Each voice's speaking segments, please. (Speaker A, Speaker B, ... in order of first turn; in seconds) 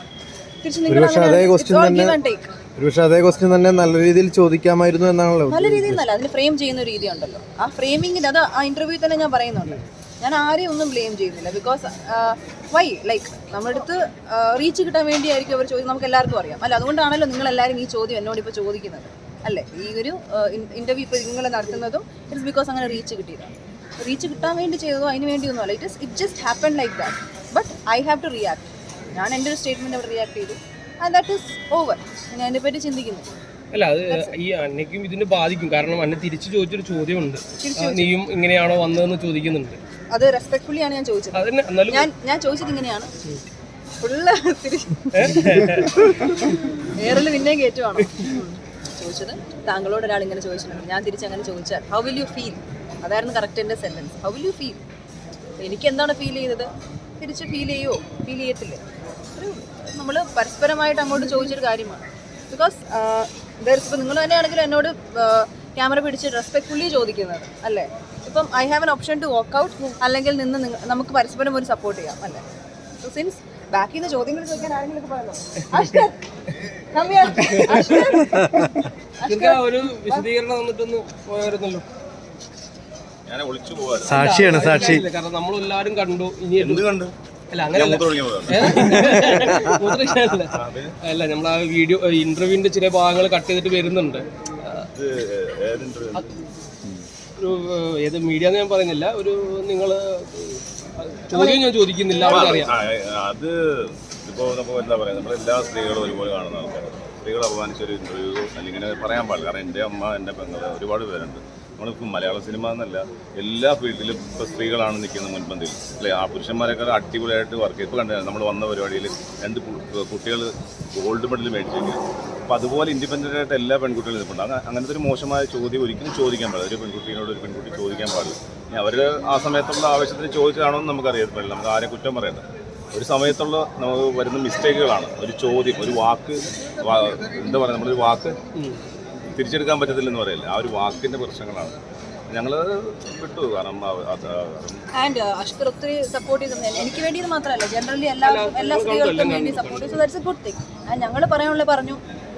Speaker A: 0.6-2.5, 5.5-33.3, 37.6-38.1, 40.1-43.1, 44.0-54.8, 55.6-58.8, 59.3-72.4, 73.0-76.2, 76.8-80.2, 101.3-102.7, 144.9-152.0
Speaker B: 0.9-2.2, 2.8-6.0, 84.2-85.0
Speaker C: 33.7-39.8, 41.3-42.1, 45.1-46.0, 75.7-76.0, 77.3-78.3, 79.2-81.8, 84.1-86.8, 87.5-94.9, 97.4-102.7, 138.5-138.8, 148.2-150.0
Speaker D: 83.2-84.7, 86.6-87.1, 87.7-89.2, 90.5-91.0, 94.9-96.4, 102.3-138.4, 139.3-141.8, 142.3-144.8